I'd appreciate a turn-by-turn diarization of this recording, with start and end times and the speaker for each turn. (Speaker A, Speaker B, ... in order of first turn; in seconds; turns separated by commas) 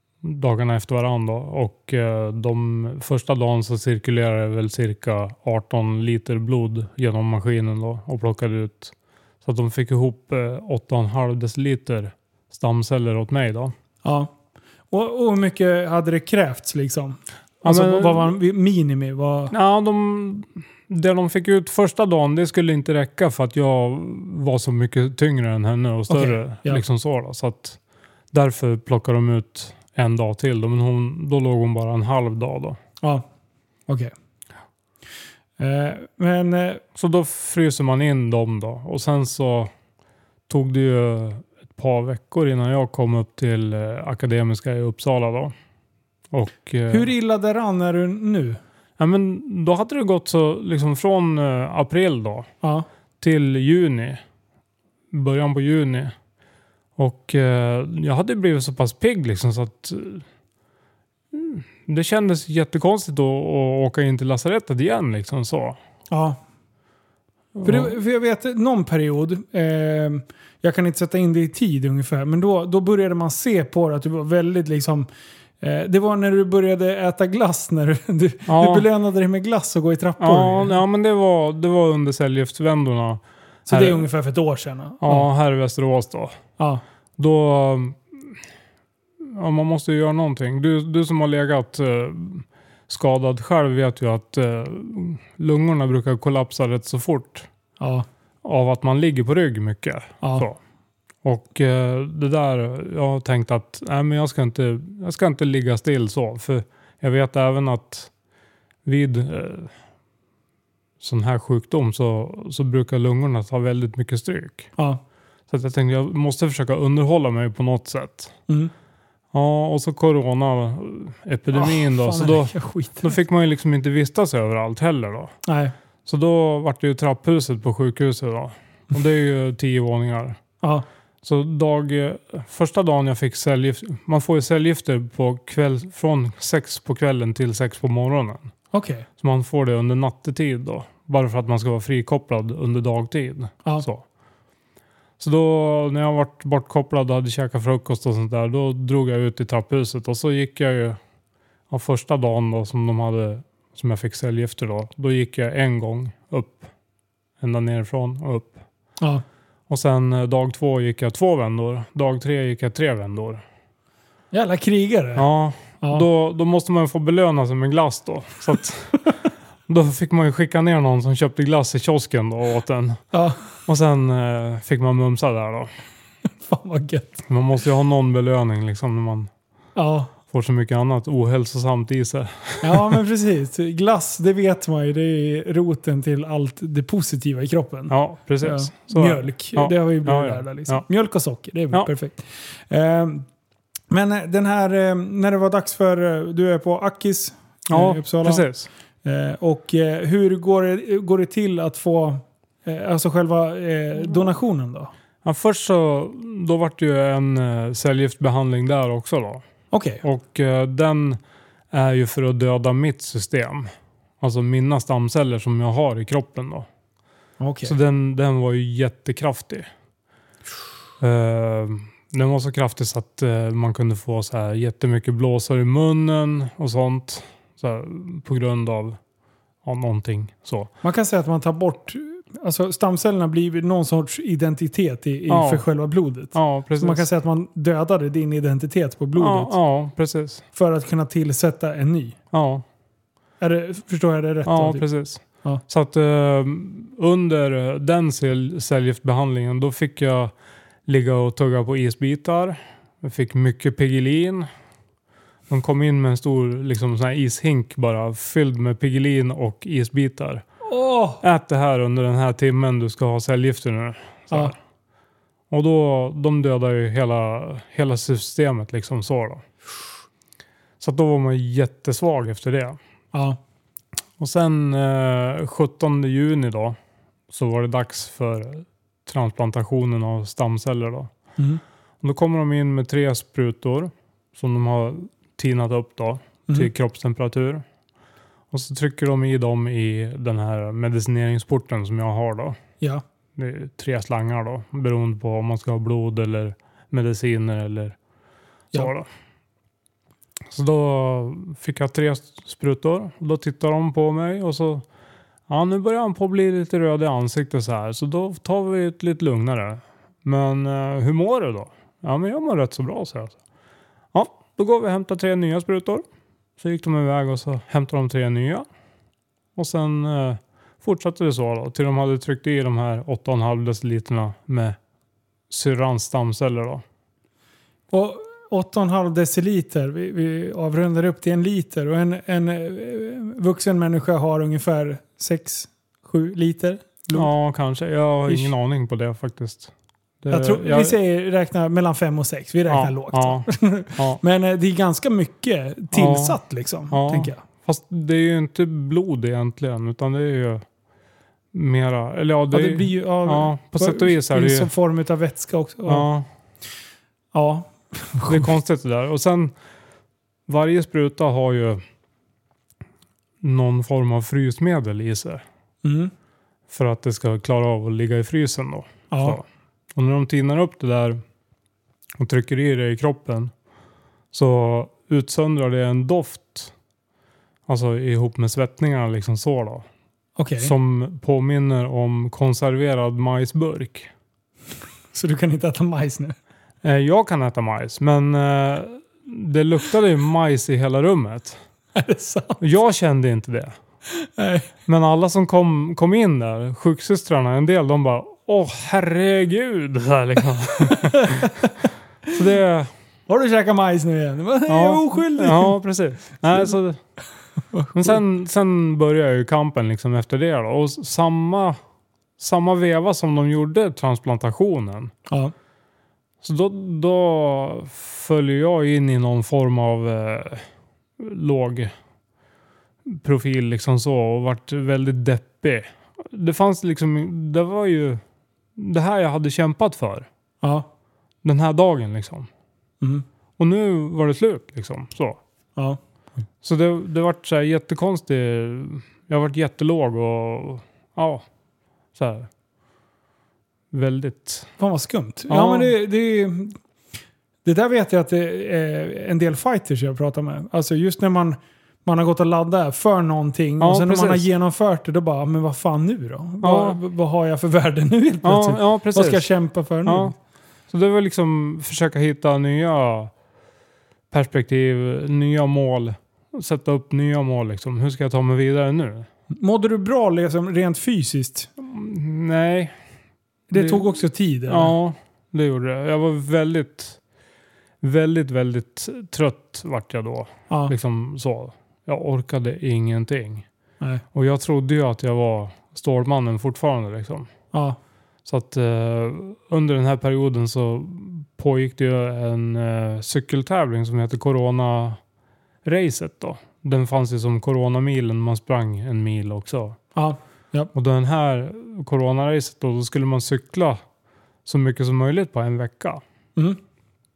Speaker A: 0.2-13.7, Speaker B: 14.0-14.3, Speaker B: 14.9-19.5, Speaker A: 17.6-18.3, Speaker A: 19.5-27.8, Speaker B: 26.1-26.8, Speaker A: 28.3-32.8, Speaker B: 35.6-36.8, Speaker A: 36.9-39.7, Speaker A: 40.5-45.5, Speaker A: 46.3-47.1, Speaker B: 46.9-48.6, Speaker A: 49.0-52.5, Speaker A: 53.2-54.2, Speaker A: 55.1-56.1, Speaker A: 57.0-60.2, Speaker A: 61.3-65.8, Speaker B: 66.1-66.4, Speaker A: 67.5-67.9, Speaker B: 67.6-75.1, Speaker B: 75.6-80.8, Speaker A: 78.5-78.8, Speaker A: 80.2-84.0, Speaker B: 83.7-85.3, Speaker A: 85.0-86.4, Speaker A: 87.2-88.4, Speaker A: 89.2-97.5, Speaker B: 97.8-98.0, Speaker A: 98.4-100.6, Speaker A: 101.2-108.1, Speaker A: 108.8-109.7, Speaker A: 111.0-114.7, Speaker A: 115.5-118.3, Speaker A: 119.3-125.3, Speaker B: 121.5-123.1, Speaker B: 125.4-125.7, Speaker A: 126.0-130.4, Speaker A: 131.2-138.5, Speaker B: 138.7-139.1, Speaker A: 139.2-144.0, Speaker A: 145.2-151.0, Speaker A: 151.7-156.7, Speaker A: 157.4-158.6, Speaker A: 159.7-163.4, Speaker B: 164.3-165.2, Speaker A: 165.2-169.1, Speaker A: 169.7-173.0, Speaker B: 173.1-173.4, Speaker A: 173.7-175.7, Speaker B: 176.5-177.2, Speaker A: 177.3-179.3, Speaker B: 179.8-180.1, Speaker A: 180.3-183.0, Speaker B: 182.6-193.2, Speaker A: 187.9-190.8, Speaker B: 193.9-198.5, Speaker A: 197.7-198.7, Speaker B: 199.0-204.9, Speaker A: 205.2-209.4, Speaker B: 209.7-210.0, Speaker A: 210.0-211.2, Speaker A: 211.7-213.7, Speaker A: 214.2-216.7, Speaker B: 217.4-217.7, Speaker A: 217.6-219.7, Speaker A: 221.0-229.0, Speaker A: 229.6-230.7, Speaker B: 230.8-239.5, Speaker A: 235.3-235.6, Speaker A: 236.3-237.1, Speaker A: 239.2-240.4, Speaker B: 240.5-242.2, Speaker A: 242.3-242.6, Speaker B: 243.4-244.9, Speaker A: 244.4-250.3, Speaker A: 250.8-254.5, Speaker A: 255.5-260.4, Speaker B: 260.6-261.2, Speaker A: 261.2-264.6, Speaker A: 265.5-269.4, Speaker A: 270.8-272.8, Speaker B: 273.1-273.4, Speaker A: 274.2-276.8, Speaker A: 277.3-281.1, Speaker A: 282.0-287.6, Speaker A: 288.5-292.6, Speaker A: 293.4-297.9, Speaker A: 298.7-299.1, Speaker A: 300.5-304.8, Speaker A: 305.5-313.4, Speaker A: 314.1-316.0, Speaker A: 316.6-318.6, Speaker A: 319.6-324.8, Speaker A: 325.5-326.8, Speaker B: 327.9-337.3, Speaker A: 337.1-340.9, Speaker B: 338.3-338.5, Speaker B: 340.3-347.4, Speaker A: 342.7-344.2, Speaker A: 345.9-346.4, Speaker A: 346.9-350.6, Speaker A: 351.5-354.7, Speaker B: 352.5-356.1, Speaker A: 355.9-356.2, Speaker B: 357.3-358.5, Speaker A: 358.2-359.5, Speaker A: 360.5-361.8, Speaker A: 363.4-365.4, Speaker B: 365.8-366.1, Speaker A: 366.7-371.2, Speaker B: 369.1-369.4, Speaker A: 372.2-373.5, Speaker A: 374.3-376.7, Speaker A: 377.7-379.8, Speaker B: 380.4-380.7, Speaker A: 380.6-384.1, Speaker B: 385.1-386.4, Speaker A: 386.8-391.6, Speaker B: 391.9-392.6, Speaker A: 392.6-393.7, Speaker B: 394.1-394.7, Speaker A: 394.9-401.5, Speaker B: 400.9-401.7, Speaker A: 402.3-402.9, Speaker B: 403.3-405.8, Speaker A: 404.7-407.0, Speaker B: 407.7-408.2, Speaker A: 407.9-411.8, Speaker A: 412.4-415.1, Speaker A: 416.4-420.6, Speaker A: 421.2-421.9, Speaker A: 423.0-428.2, Speaker A: 428.8-430.3, Speaker B: 430.6-430.9, Speaker A: 431.4-432.5, Speaker A: 433.6-435.4, Speaker A: 436.6-441.4, Speaker A: 442.1-442.5, Speaker A: 443.9-444.7, Speaker B: 444.8-446.8, Speaker A: 445.5-445.9, Speaker B: 447.6-460.3, Speaker A: 453.8-454.5, Speaker A: 456.6-457.0, Speaker A: 458.4-459.4, Speaker A: 460.0-460.3, Speaker A: 460.9-463.3, Speaker A: 464.3-469.3, Speaker B: 469.5-471.7, Speaker A: 471.8-472.9, Speaker B: 473.7-474.9, Speaker A: 473.7-474.1, Speaker A: 474.7-477.2, Speaker A: 478.0-483.6, Speaker A: 484.3-487.5, Speaker B: 487.7-488.0, Speaker A: 488.4-495.2, Speaker A: 495.8-500.0, Speaker B: 500.1-500.9, Speaker A: 500.9-504.0, Speaker A: 504.6-506.2